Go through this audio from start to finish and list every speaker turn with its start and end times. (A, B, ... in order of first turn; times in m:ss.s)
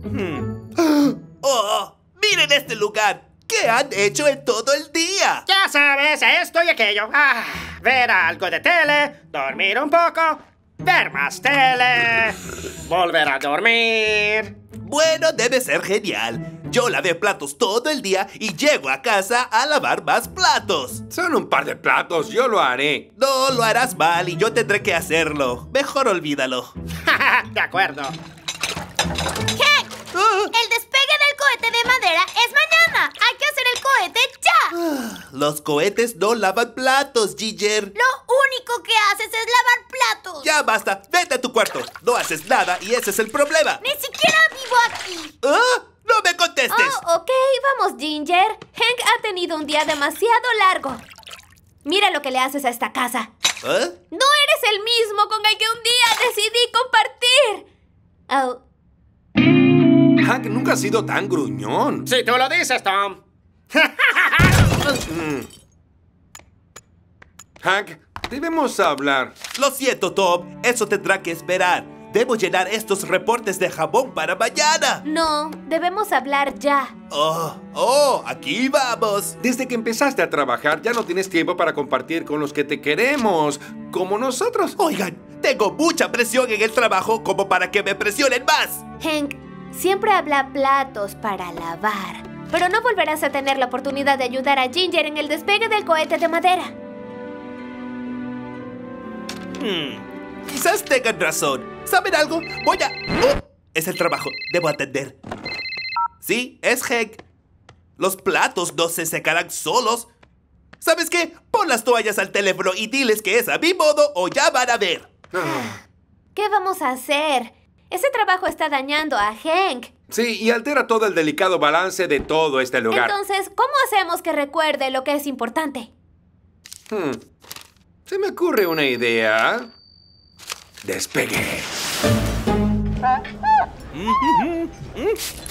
0:00.1-0:05.4 A
0:05.5-0:14.6 B
0:14.8-0:21.0 A
0:21.1-0:23.1 C
0:23.2-0:26.7 A
0:27.0-0:28.2 B
0:29.6-0:29.9 D
0:30.1-0:30.5 A
0:30.5-0:34.7 D
0:34.7-0:37.9 A
0:38.0-0:40.5 D
0:40.4-0:43.8 A
0:43.8-0:45.3 D
0:45.4-0:47.0 A
0:46.7-0:51.0 E
0:51.8-0:53.3 E
0:53.6-0:54.0 A
0:54.1-0:57.7 E
0:58.3-0:58.6 E
1:00.2-1:02.1 C
1:02.1-1:03.2 B
1:03.7-1:04.8 B
1:05.1-1:05.5 C
1:07.6-1:09.3 C
1:09.5-1:15.0 A
1:15.0-1:17.0 E
1:17.1-1:19.4 A
1:19.4-1:24.8 C
1:24.8-1:28.8 A
1:29.0-1:36.7 E
1:39.6-1:45.2 A
1:46.2-1:47.2 A
1:48.0-1:50.1 A
1:50.8-1:55.1 A
1:55.3-1:55.7 C
1:55.4-1:55.8 E
1:56.4-1:59.9 E
2:00.1-2:03.2 C
2:02.9-2:05.9 E
2:06.9-2:07.2 C
2:08.1-2:09.7 C
2:10.8-2:11.7 C
2:13.9-2:14.9 A